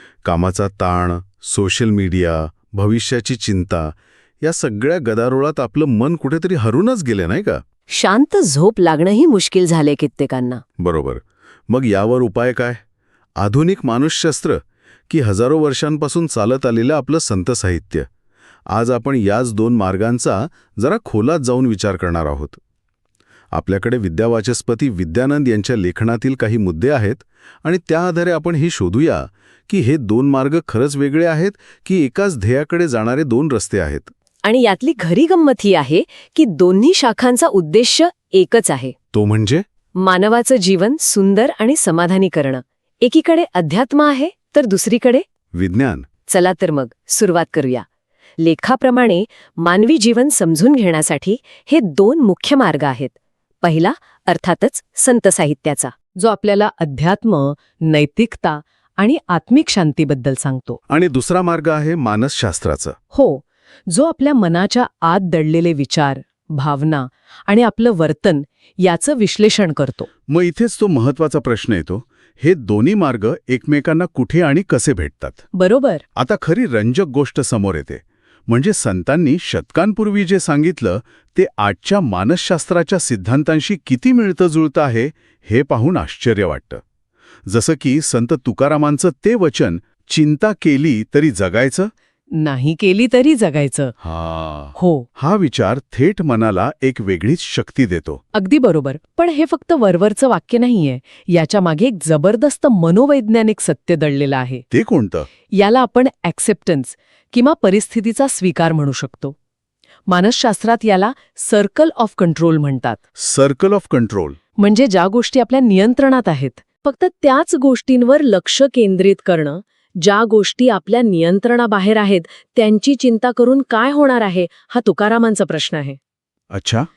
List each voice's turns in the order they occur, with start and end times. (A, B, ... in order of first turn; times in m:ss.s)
0:00.2-0:07.6 A
0:07.9-0:10.6 B
0:10.8-0:12.8 A
0:13.4-0:18.1 A
0:18.7-0:22.6 A
0:23.5-0:34.1 A
0:34.4-0:38.9 B
0:39.1-0:39.6 A
0:40.0-0:45.2 B
0:45.5-0:46.1 A
0:46.3-0:47.8 B
0:48.4-1:00.8 B
1:00.9-1:03.0 A
1:03.1-1:10.1 B
1:10.3-1:15.4 A
1:15.5-1:16.0 B
1:16.2-1:26.8 A
1:27.4-1:31.9 A
1:32.3-1:33.9 B
1:34.0-1:38.2 A
1:34.8-1:35.1 B
1:38.3-1:44.6 B
1:44.7-1:45.3 A
1:45.5-1:49.3 B
1:50.1-1:53.0 B
1:53.2-1:54.4 A
1:54.6-2:06.0 B
2:06.5-2:06.9 A